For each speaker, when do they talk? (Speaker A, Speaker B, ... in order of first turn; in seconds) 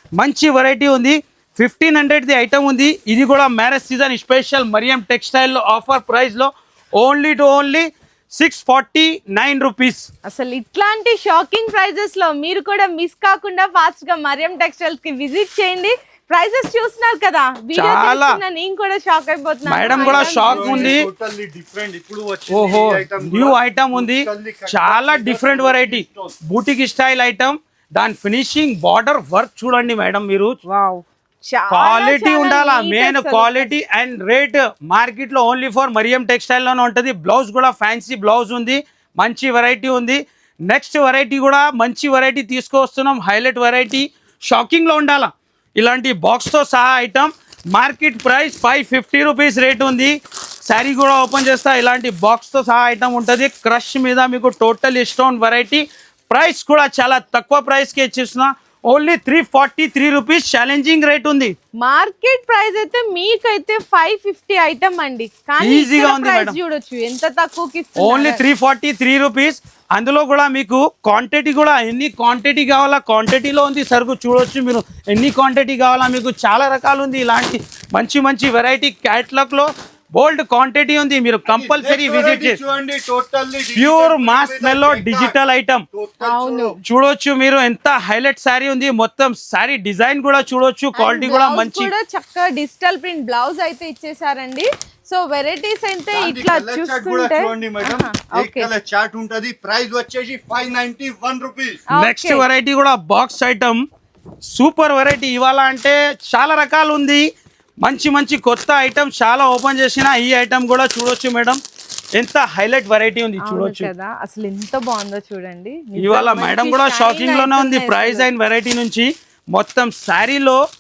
Speaker A: 0.2-10.1, 17.8-18.4, 19.7-21.1, 22.5-30.5, 31.7-61.5, 65.6-66.6, 68.0-82.6, 83.8-85.8, 86.8-91.9, 102.0-103.8, 104.5-107.2, 107.8-111.6, 112.2-113.9, 116.0-120.6
Speaker B: 10.2-21.1, 30.7-33.7, 61.8-68.4, 86.2-86.7, 91.0-98.7, 101.9-102.5, 113.4-118.3
Speaker C: 19.8-26.4, 81.5-85.3, 85.9-86.8, 96.1-101.8